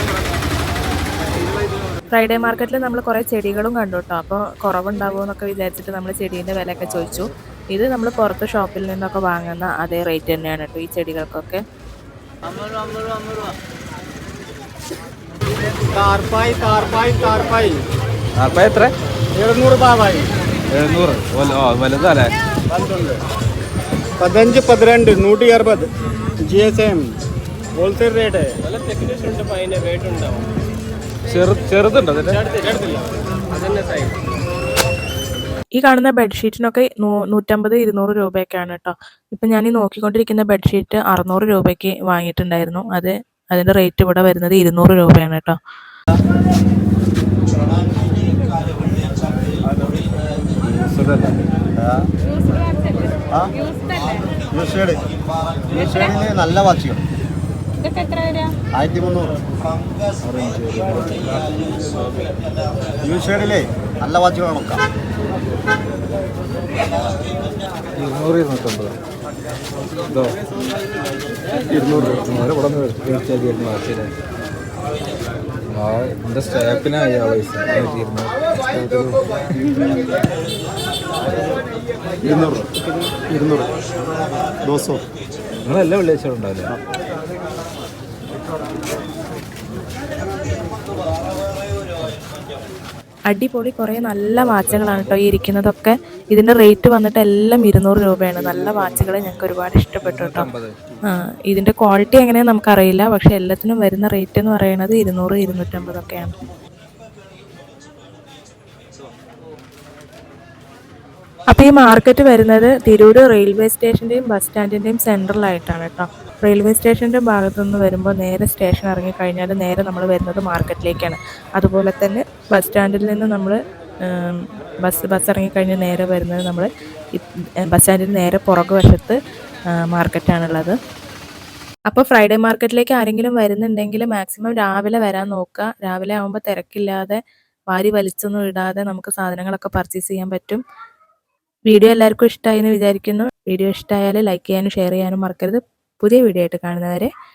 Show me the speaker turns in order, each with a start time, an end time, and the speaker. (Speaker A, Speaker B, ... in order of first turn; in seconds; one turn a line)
Speaker A: 2.1-11.6
Speaker B: 15.9-17.8
Speaker C: 18.4-18.9
Speaker B: 19.4-20.3
Speaker C: 20.7-22.3
Speaker B: 24.2-25.9
Speaker B: 26.4-27.0
Speaker B: 27.8-28.5
Speaker C: 31.3-32.4
Speaker A: 35.8-45.6
Speaker D: 48.2-48.7
Speaker C: 50.6-51.4
Speaker D: 52.2-54.3
Speaker E: 54.5-55.0
Speaker E: 55.7-57.0
Speaker D: 55.7-56.2
Speaker D: 57.8-58.5
Speaker E: 58.8-59.4
Speaker C: 60.2-61.8
Speaker E: 63.0-64.8
Speaker C: 68.0-68.9
Speaker C: 70.0-70.4
Speaker C: 71.7-74.1
Speaker C: 75.7-80.0
Speaker E: 82.3-82.6
Speaker C: 82.3-83.1
Speaker E: 83.3-83.7
Speaker E: 84.6-85.0
Speaker C: 85.7-86.7
Speaker A: 93.3-100.5
Speaker C: 94.8-95.2
Speaker C: 100.0-100.8
Speaker A: 101.5-106.3
Speaker A: 111.5-123.6
Speaker A: 124.1-129.2
Speaker A: 129.8-130.8
Speaker A: 131.9-137.2
Speaker A: 137.7-140.6
Speaker A: 141.7-147.1